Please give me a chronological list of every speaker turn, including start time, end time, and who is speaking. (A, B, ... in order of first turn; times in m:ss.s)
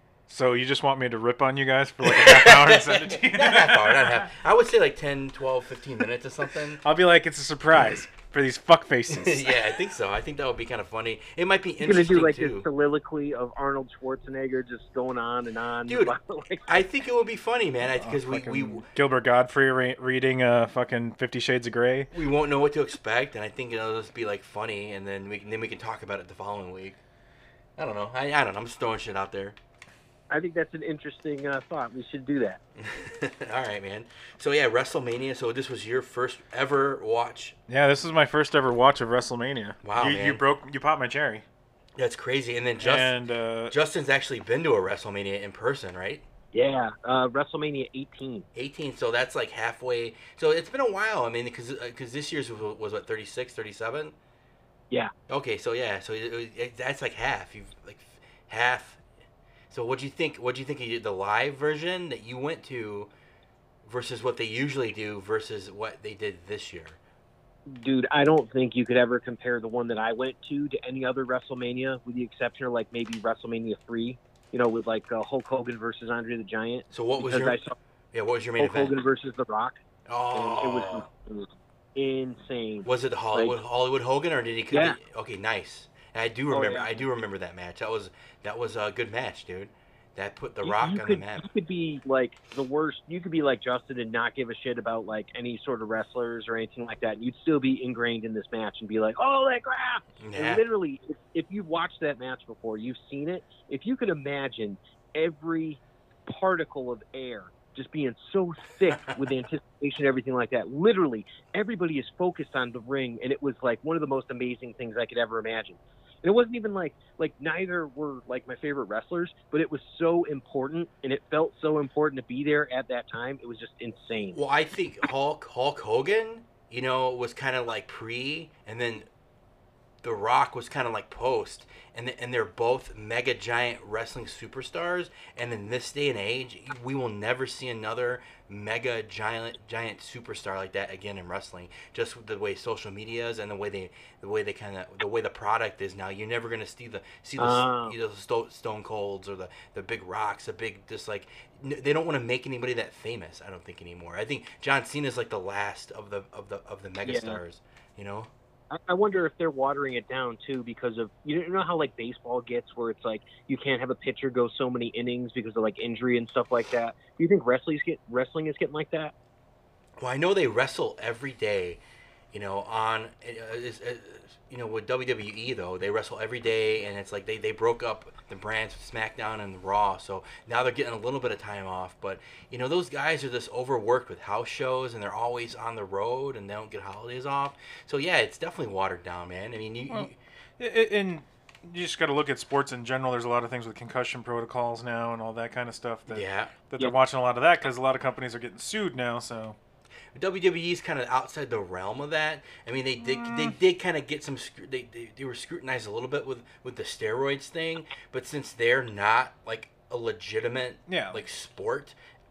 0:00.3-0:04.3 A
0:02.0-0:06.8 B
0:06.8-0:09.6 A
0:07.8-0:08.0 B
0:09.1-0:12.7 B
0:11.8-0:16.8 C
0:15.9-0:16.1 B
0:16.7-0:18.8 B
0:18.0-0:22.1 A
0:22.1-0:27.0 B
0:27.8-0:29.6 B
0:30.3-0:32.6 C
0:32.8-0:37.6 B
0:37.7-0:41.4 A
0:39.8-0:40.4 B
0:42.0-0:43.1 B
0:42.8-0:43.8 A
0:43.7-0:46.2 B
0:46.5-0:48.5 C
0:48.5-0:54.2 B
0:55.3-0:59.0 B
0:59.7-1:03.1 B
1:03.8-1:07.0 B
1:07.7-1:17.8 C
1:16.9-1:17.6 B
1:18.1-1:19.0 B
1:18.6-1:19.8 C
1:20.1-1:21.1 B
1:20.3-1:23.6 C
1:22.8-1:31.5 B
1:24.7-1:25.0 C
1:26.5-1:27.1 C
1:30.6-2:04.4 C
1:40.2-1:40.6 B
2:04.3-2:09.1 B
2:10.0-2:38.3 B
2:27.4-2:28.0 C
2:37.0-2:37.4 C
2:38.7-2:49.1 C
2:50.0-3:10.1 B
3:09.9-3:19.6 A
3:16.1-3:16.6 B
3:20.1-3:32.0 B
3:23.0-3:23.6 A
3:30.9-3:31.2 A